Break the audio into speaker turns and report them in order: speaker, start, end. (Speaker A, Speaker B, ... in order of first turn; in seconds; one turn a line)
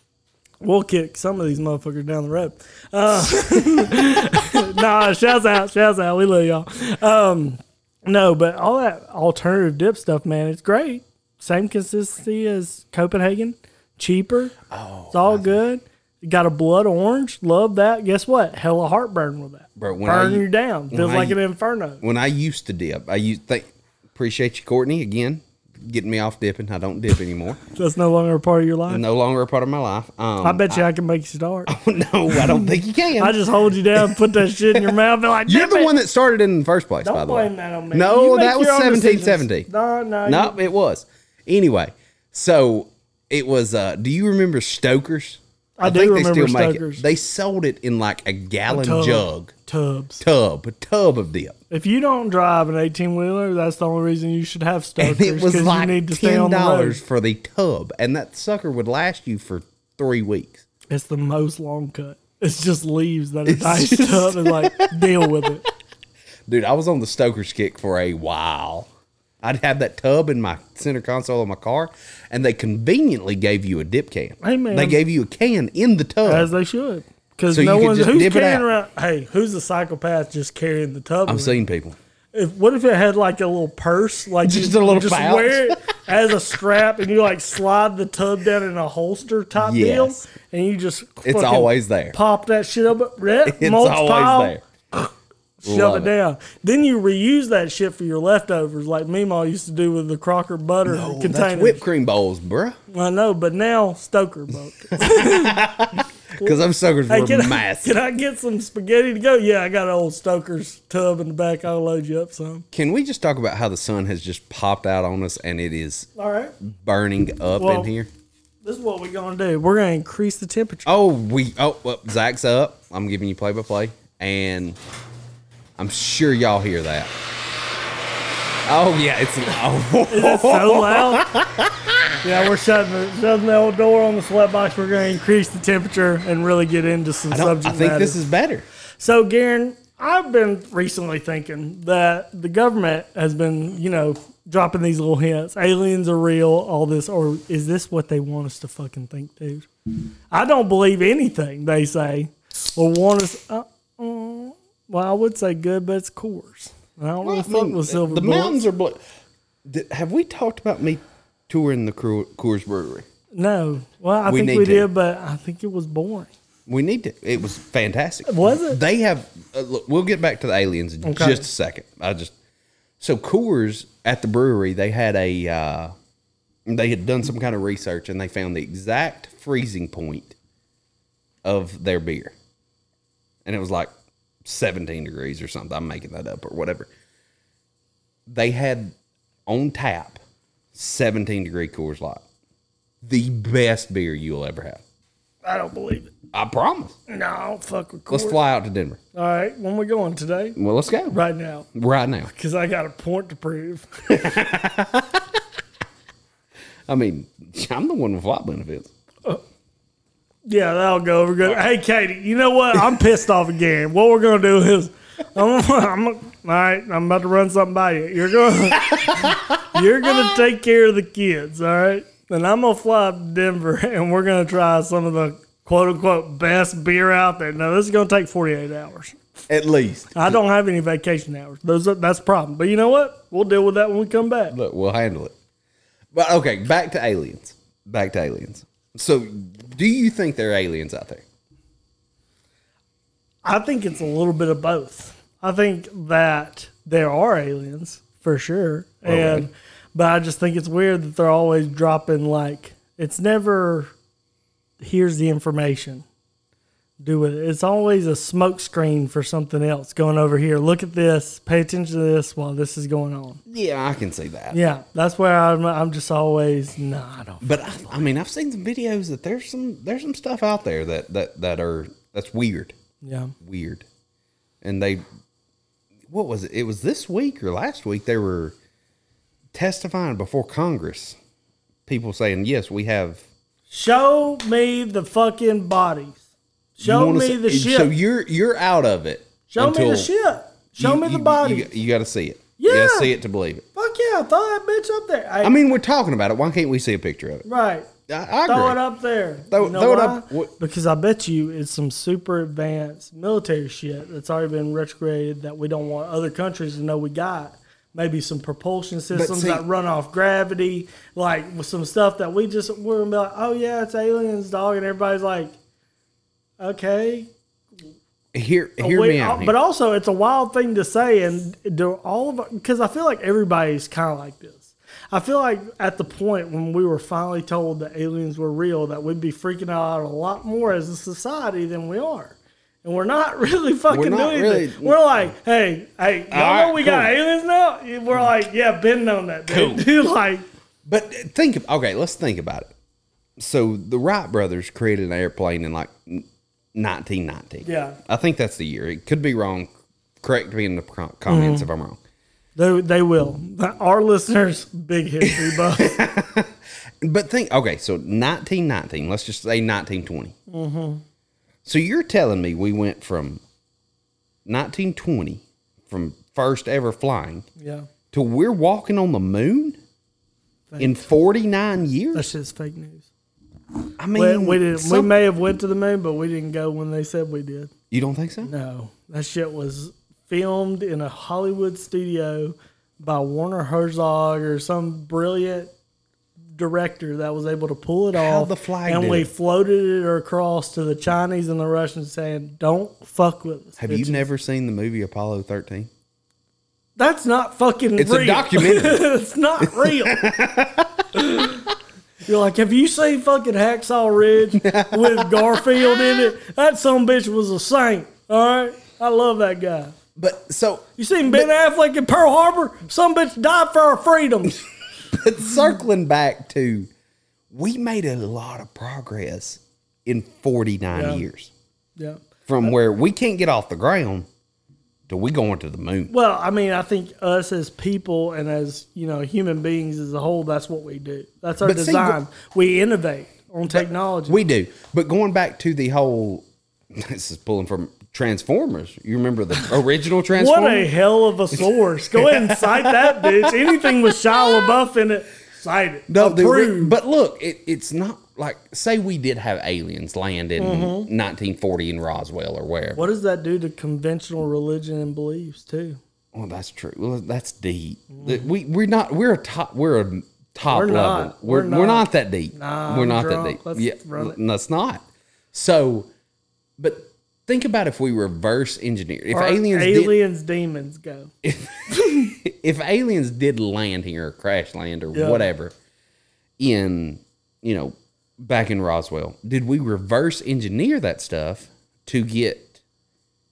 Speaker A: 0.6-14.5
Speaker B: 14.7-15.6
Speaker A: 15.1-22.0
Speaker B: 19.8-21.4
Speaker B: 22.0-27.6
Speaker A: 27.7-29.0
Speaker B: 28.9-30.9
Speaker A: 30.4-31.7
Speaker B: 31.7-33.4
Speaker A: 32.3-35.9
Speaker B: 33.9-39.7
Speaker A: 37.0-40.5
Speaker B: 40.2-49.5
Speaker A: 45.8-47.0
Speaker A: 48.7-50.2
Speaker B: 50.2-51.6
Speaker A: 51.7-57.0
Speaker B: 55.0-60.6
Speaker A: 60.9-65.6
Speaker B: 63.5-65.5
Speaker B: 66.5-68.9
Speaker B: 69.4-76.5
Speaker A: 74.4-75.0
Speaker A: 76.2-81.6
Speaker B: 77.5-78.7
Speaker B: 81.2-82.0
Speaker A: 82.3-95.0
Speaker B: 84.4-85.9
Speaker B: 89.6-90.2
Speaker B: 91.2-92.2
Speaker B: 93.4-94.6
Speaker A: 95.6-101.8
Speaker B: 95.6-96.1
Speaker B: 100.8-102.8
Speaker A: 102.9-105.6
Speaker B: 104.9-107.9
Speaker A: 107.1-112.6
Speaker B: 112.7-116.1
Speaker A: 116.2-116.5
Speaker B: 116.6-118.1
Speaker A: 117.6-117.9
Speaker A: 118.6-120.9
Speaker B: 120.8-124.8
Speaker B: 125.8-127.1
Speaker B: 128.7-132.1
Speaker A: 130.1-131.3
Speaker A: 132.2-138.2
Speaker B: 137.3-138.7
Speaker A: 139.0-149.7
Speaker A: 150.3-158.7
Speaker B: 157.2-159.0
Speaker B: 159.6-163.1
Speaker A: 163.3-166.3
Speaker B: 164.2-164.9
Speaker B: 166.7-172.3
Speaker A: 168.2-168.8
Speaker A: 171.0-171.4
Speaker B: 173.0-175.9
Speaker B: 176.7-180.3
Speaker B: 181.4-182.3
Speaker B: 183.4-183.9
Speaker B: 184.4-186.9
Speaker B: 188.3-188.9
Speaker B: 189.5-190.2
Speaker B: 190.7-192.2
Speaker B: 193.0-194.8
Speaker A: 195.4-196.1
Speaker B: 196.3-196.9
Speaker A: 197.1-198.4
Speaker B: 198.1-199.0
Speaker A: 199.1-200.6
Speaker B: 200.6-201.2
Speaker A: 201.1-201.7
Speaker B: 201.7-202.3
Speaker A: 202.3-204.2
Speaker B: 204.1-205.3
Speaker B: 206.9-208.9
Speaker A: 210.4-229.2
Speaker B: 219.1-219.4
Speaker B: 229.5-230.4
Speaker A: 230.1-234.5
Speaker B: 234.5-235.3
Speaker B: 236.1-241.2
Speaker A: 243.4-253.9
Speaker B: 249.0-249.5
Speaker A: 254.8-256.0
Speaker A: 257.0-263.4
Speaker B: 263.5-264.6
Speaker A: 264.5-267.5
Speaker B: 267.4-272.8
Speaker A: 273.0-273.3
Speaker B: 273.4-273.9
Speaker B: 274.6-275.0
Speaker B: 276.1-278.6
Speaker B: 279.5-281.2
Speaker B: 281.9-283.2
Speaker A: 283.7-286.2
Speaker A: 286.8-287.9
Speaker B: 286.8-290.1
Speaker A: 289.5-291.7
Speaker B: 290.8-293.6
Speaker A: 292.6-293.1
Speaker A: 293.7-295.6
Speaker B: 295.4-297.4
Speaker A: 297.4-297.9
Speaker B: 298.1-298.8
Speaker A: 298.4-315.5
Speaker B: 299.5-300.5
Speaker B: 309.1-309.6
Speaker A: 316.6-317.3
Speaker B: 318.3-319.6
Speaker A: 318.8-340.4
Speaker B: 333.9-335.0
Speaker B: 336.3-337.1
Speaker B: 339.5-339.9
Speaker B: 340.8-342.7
Speaker B: 343.4-352.0
Speaker A: 347.6-348.0
Speaker A: 351.3-351.7
Speaker A: 352.6-356.0
Speaker B: 355.2-360.3
Speaker A: 360.5-361.0
Speaker B: 361.6-363.4
Speaker B: 364.4-367.4
Speaker A: 367.6-367.9
Speaker B: 368.1-369.8
Speaker A: 370.7-371.0
Speaker B: 370.8-372.3
Speaker A: 372.1-373.1
Speaker B: 374.0-375.1
Speaker A: 374.1-377.7
Speaker B: 377.9-378.5
Speaker A: 378.4-385.7
Speaker A: 386.6-394.2
Speaker B: 388.1-389.3
Speaker B: 393.8-395.9
Speaker A: 397.0-400.2
Speaker B: 398.0-399.1
Speaker B: 399.6-401.1
Speaker A: 401.1-401.6
Speaker A: 402.2-409.9
Speaker B: 404.5-406.3
Speaker B: 410.1-411.5
Speaker A: 411.0-414.6
Speaker B: 415.1-416.9
Speaker B: 417.5-421.5
Speaker A: 420.9-421.2
Speaker B: 422.5-424.3
Speaker B: 425.1-426.1
Speaker A: 426.1-434.4
Speaker B: 431.6-432.2
Speaker B: 433.7-440.9
Speaker A: 440.3-447.0
Speaker B: 441.5-444.1
Speaker B: 446.1-453.0
Speaker A: 450.6-451.1
Speaker A: 452.9-456.0
Speaker B: 456.3-466.1
Speaker A: 458.1-458.5
Speaker A: 460.7-464.4
Speaker B: 466.8-470.2
Speaker A: 469.3-471.3
Speaker B: 471.4-475.7
Speaker A: 475.1-475.4
Speaker B: 476.6-482.8